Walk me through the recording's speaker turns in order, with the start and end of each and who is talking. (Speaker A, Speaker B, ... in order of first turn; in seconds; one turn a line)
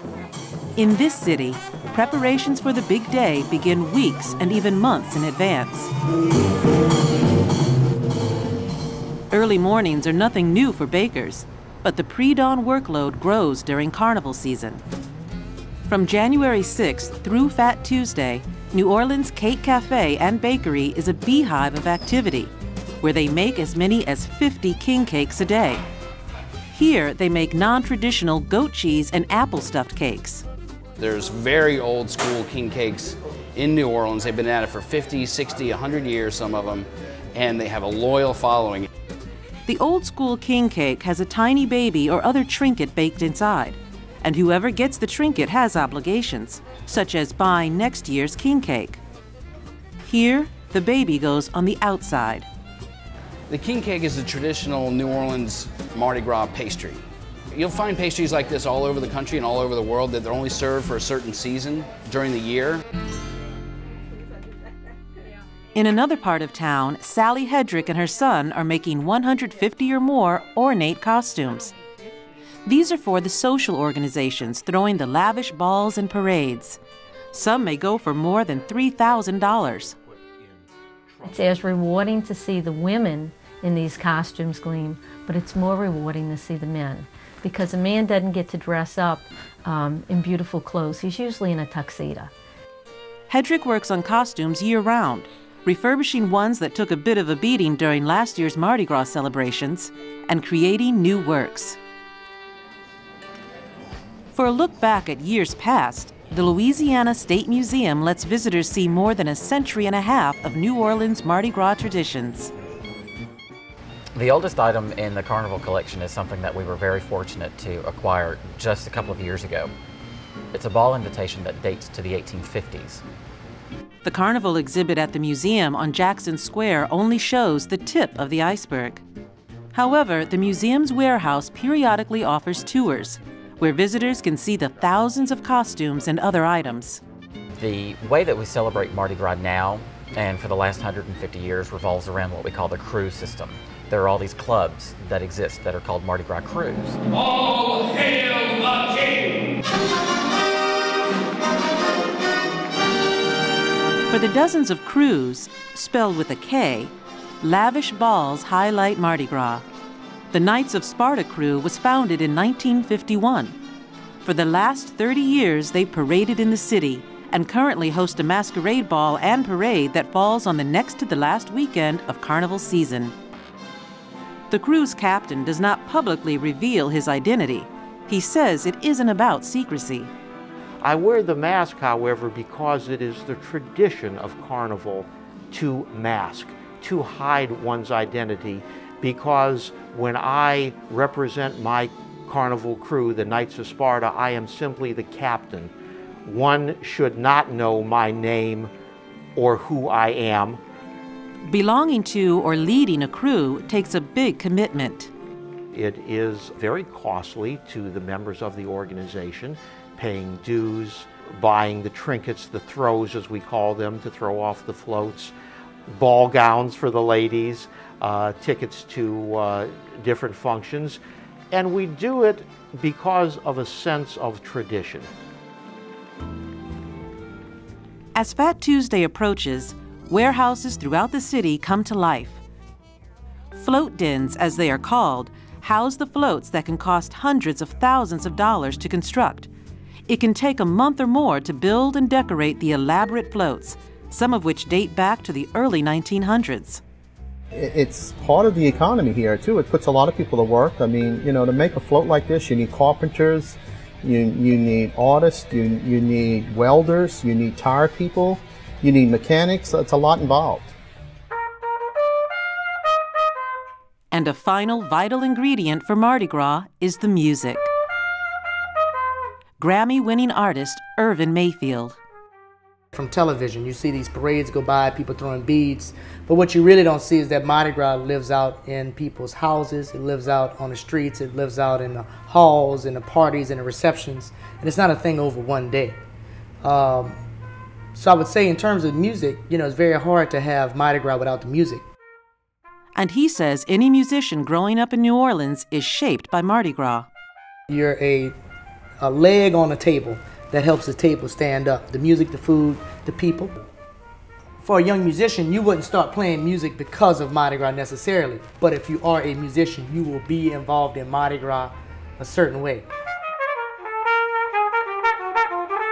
Speaker A: 0.8-5.9
Speaker A: 9.3-14.8
Speaker A: 15.9-25.8
Speaker A: 26.7-30.4
Speaker B: 31.0-38.9
Speaker A: 39.7-49.0
Speaker A: 50.0-52.5
Speaker B: 53.5-62.8
Speaker A: 65.7-71.7
Speaker A: 72.7-76.8
Speaker A: 77.3-79.9
Speaker C: 81.2-92.3
Speaker A: 93.3-101.8
Speaker A: 104.3-112.5
Speaker D: 114.2-119.7
Speaker D: 120.5-123.0
Speaker A: 124.0-129.0
Speaker A: 129.7-137.0
Speaker D: 137.6-147.0
Speaker B: 147.3-149.1
Speaker A: 154.1-159.6
Speaker A: 160.3-163.6
Speaker A: 164.2-173.1
Speaker A: 174.5-180.1
Speaker E: 180.8-195.7
Speaker E: 196.2-198.7
Speaker E: 199.3-200.6
Speaker A: 201.4-205.1
Speaker E: 205.7-215.3
Speaker E: 215.9-221.0
Speaker E: 221.5-225.1
Speaker A: 228.1-232.4
Speaker A: 233.5-239.5
Speaker A: 240.1-246.8
Speaker F: 247.5-260.7
Speaker A: 264.1-267.7
Speaker A: 269.6-272.0
Speaker G: 272.9-286.0
Speaker G: 286.6-287.2
Speaker G: 287.9-291.8
Speaker A: 292.9-297.1
Speaker G: 297.7-298.3
Speaker G: 299.0-303.5
Speaker G: 304.6-312.9